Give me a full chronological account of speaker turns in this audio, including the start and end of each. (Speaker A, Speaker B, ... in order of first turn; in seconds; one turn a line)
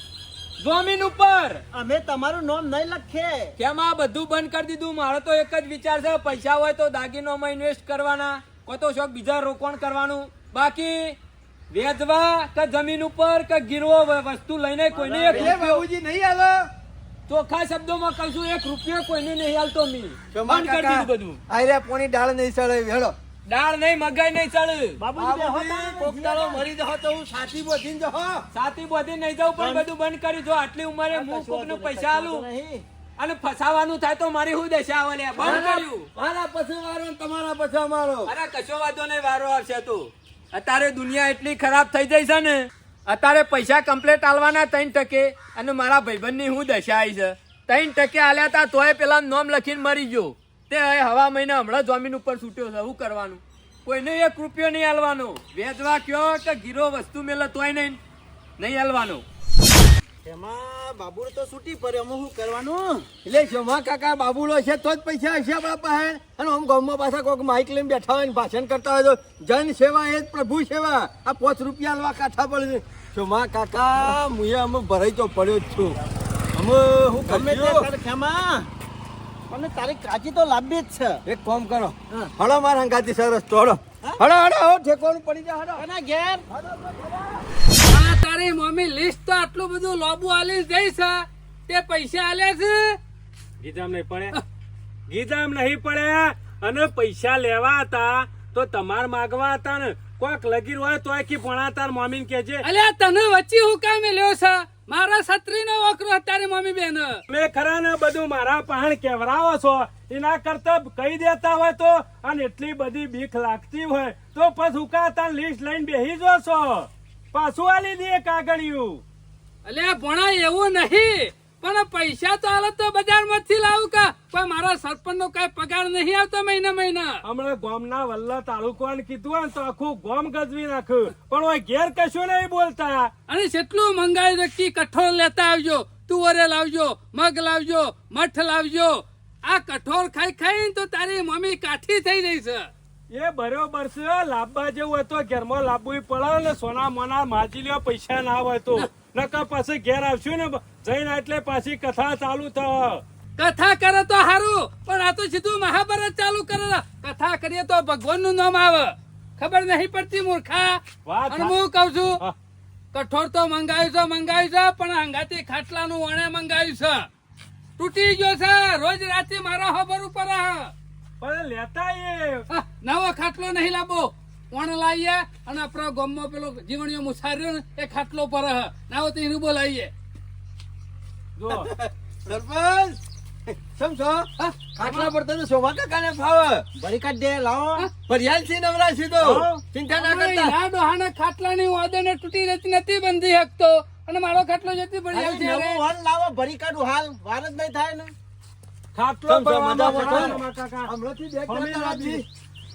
Speaker A: 0.6-1.6
Speaker B: 1.7-3.5
Speaker A: 3.6-11.2
Speaker A: 11.7-15.8
Speaker B: 14.9-15.6
Speaker C: 15.3-16.7
Speaker A: 17.3-21.4
Speaker C: 20.3-23.1
Speaker A: 23.5-25.0
Speaker B: 25.0-26.6
Speaker C: 25.2-28.4
Speaker A: 28.5-32.4
Speaker B: 29.6-29.9
Speaker B: 31.1-32.8
Speaker A: 33.2-36.1
Speaker C: 35.4-38.3
Speaker A: 38.3-58.0
Speaker A: 58.6-59.2
Speaker B: 60.2-63.1
Speaker C: 63.2-76.0
Speaker C: 76.5-77.9
Speaker B: 77.2-78.7
Speaker B: 79.5-81.2
Speaker C: 81.2-85.8
Speaker B: 85.8-86.4
Speaker C: 86.5-87.4
Speaker D: 87.9-93.0
Speaker E: 93.6-94.3
Speaker E: 95.1-102.6
Speaker D: 102.6-107.2
Speaker E: 107.3-119.0
Speaker D: 119.7-127.2
Speaker E: 127.2-133.1
Speaker D: 133.3-142.7
Speaker E: 143.1-153.0
Speaker D: 153.4-162.2
Speaker E: 161.1-161.6
Speaker D: 162.9-167.1
Speaker D: 167.8-170.7
Speaker E: 171.2-172.4
Speaker D: 172.5-179.9
Speaker E: 181.4-181.7
Speaker C: 181.5-186.6
Speaker D: 184.4-185.1
Speaker B: 186.8-187.9
Speaker C: 188.1-190.5
Speaker B: 189.2-189.6
Speaker D: 189.9-195.8
Speaker B: 195.1-198.1
Speaker E: 198.9-200.9
Speaker C: 199.3-202.2
Speaker E: 201.5-202.2